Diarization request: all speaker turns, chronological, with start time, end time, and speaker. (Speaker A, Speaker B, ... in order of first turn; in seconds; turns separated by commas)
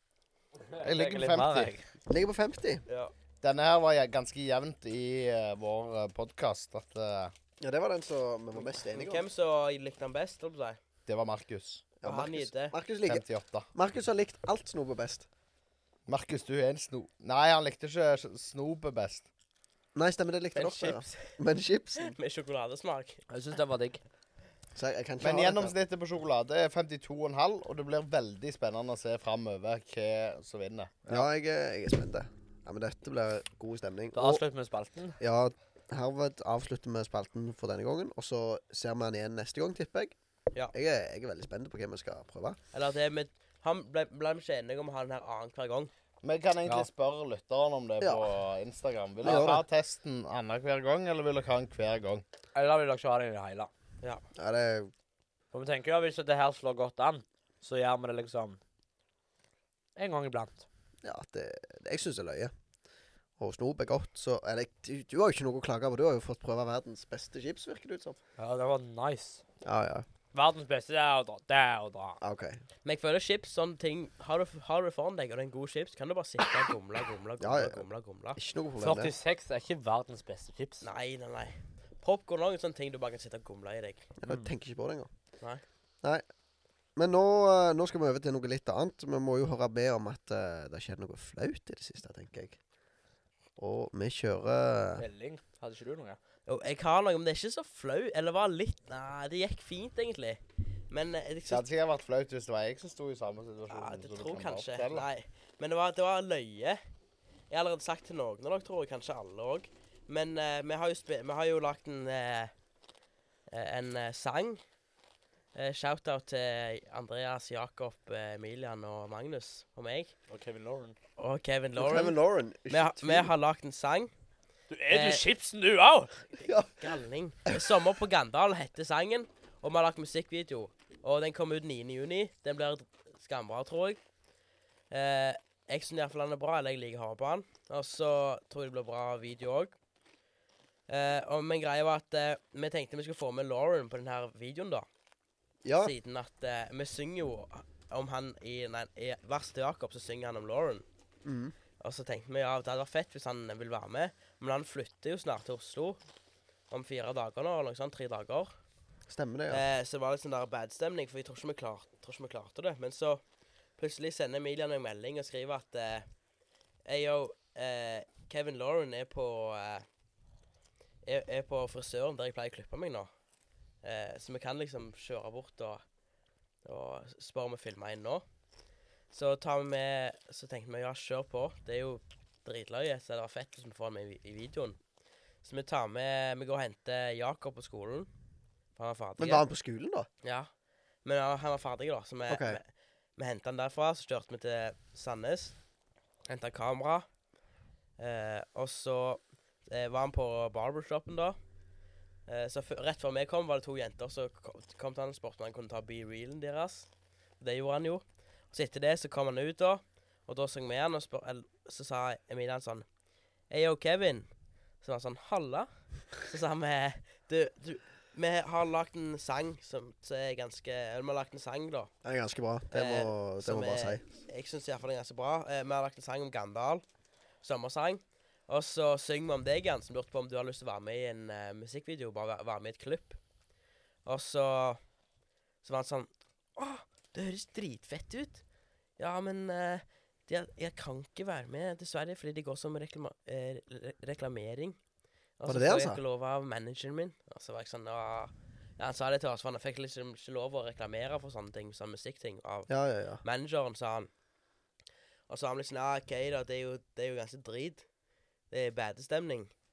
Speaker A: 0.7-1.8, Speaker B: 0.8-1.7, Speaker C: 2.1-2.8, Speaker B: 3.4-7.3, Speaker C: 7.6-9.2, Speaker D: 8.6-10.8, Speaker B: 11.1-11.8, Speaker C: 12.0-15.2, Speaker D: 12.0-12.7, Speaker B: 13.0-13.7, Speaker B: 16.1-19.2, Speaker C: 19.9-22.1, Speaker D: 20.5-21.3, Speaker D: 22.0-23.2, Speaker A: 23.3-24.0, Speaker C: 24.7-25.7, Speaker B: 25.2-30.9, Speaker C: 31.1-34.4, Speaker A: 34.1-35.2, Speaker C: 35.2-40.1, Speaker C: 40.7-42.6, Speaker D: 42.7-45.9, Speaker B: 46.2-52.2, Speaker C: 48.0-48.2, Speaker C: 49.2-49.6, Speaker A: 52.5-53.7, Speaker C: 54.4-54.9, Speaker A: 55.5-58.6, Speaker A: 60.0-60.6, Speaker C: 61.0-62.5, Speaker C: 63.4-68.2, Speaker A: 68.4-69.4, Speaker C: 69.6-70.0, Speaker A: 70.3-72.2, Speaker C: 72.2-72.6, Speaker D: 72.8-78.4, Speaker C: 77.4-77.8, Speaker C: 78.3-79.1, Speaker A: 78.8-80.9, Speaker D: 80.8-84.1, Speaker C: 84.2-85.1, Speaker C: 87.0-92.6, Speaker C: 93.6-95.0, Speaker A: 95.0-96.2, Speaker D: 96.5-101.6, Speaker B: 101.5-105.1, Speaker D: 103.7-106.8, Speaker D: 107.5-112.5, Speaker D: 113.5-114.6, Speaker D: 115.5-120.1, Speaker A: 120.3-121.0, Speaker D: 121.2-124.1, Speaker C: 121.8-123.3, Speaker A: 124.7-126.3, Speaker D: 124.9-125.2, Speaker C: 126.4-126.9, Speaker D: 126.8-134.0, Speaker D: 134.9-139.7, Speaker D: 140.9-144.8, Speaker C: 145.6-145.9, Speaker D: 145.8-150.8, Speaker C: 151.2-151.5, Speaker D: 151.8-156.0, Speaker D: 156.7-158.5, Speaker C: 159.1-159.6, Speaker D: 159.5-163.2, Speaker D: 163.8-166.1, Speaker D: 166.8-169.8, Speaker D: 171.0-173.1, Speaker D: 173.8-175.8, Speaker D: 176.6-178.2, Speaker D: 179.1-184.8, Speaker D: 185.4-188.1, Speaker D: 188.8-189.4, Speaker C: 189.2-190.1, Speaker D: 190.2-190.5, Speaker D: 191.0-195.6, Speaker C: 192.3-192.6, Speaker D: 196.3-197.1, Speaker D: 198.0-201.4, Speaker D: 202.3-212.8, Speaker D: 213.5-214.3, Speaker D: 214.8-221.9, Speaker C: 222.0-224.0, Speaker D: 222.7-226.8, Speaker D: 227.4-233.2, Speaker D: 234.0-234.8, Speaker D: 235.6-238.4, Speaker D: 239.0-244.8, Speaker D: 245.4-252.7, Speaker C: 245.4-246.0, Speaker C: 252.7-253.2, Speaker D: 253.2-254.1, Speaker D: 255.3-257.9, Speaker D: 258.5-259.5